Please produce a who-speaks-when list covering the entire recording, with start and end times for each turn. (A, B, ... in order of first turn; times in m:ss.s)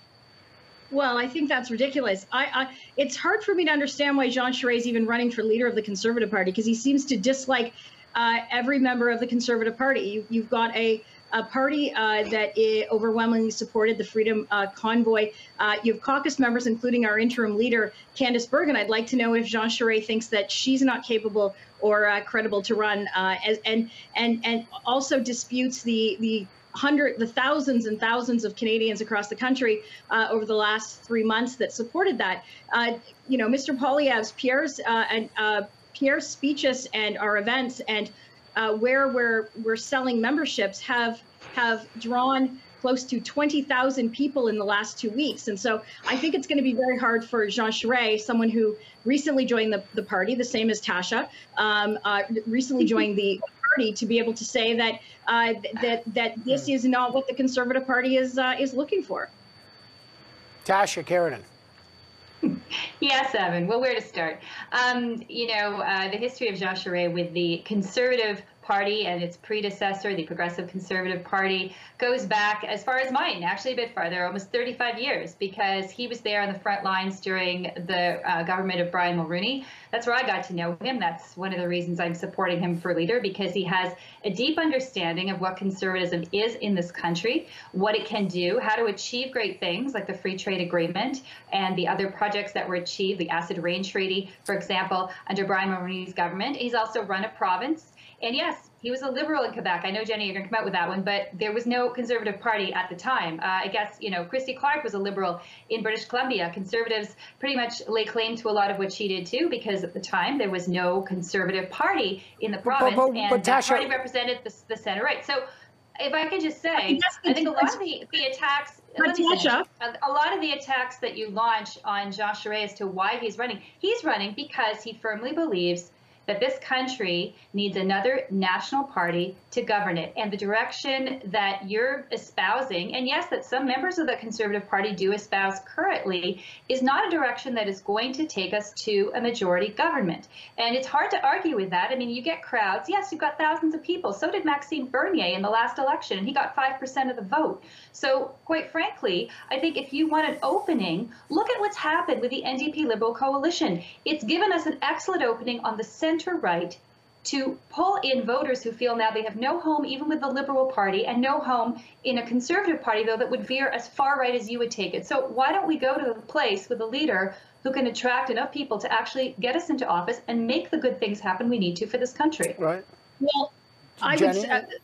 0:00.9-0:59.3 A
1:00.6-1:01.4 B
1:02.4-1:55.4 C
1:52.6-1:53.9 B
1:56.0-2:52.6 C
1:56.8-1:57.8 A
1:59.0-1:59.6 A
2:52.6-2:52.8 B
2:53.2-2:54.7 A
2:54.0-2:54.6 B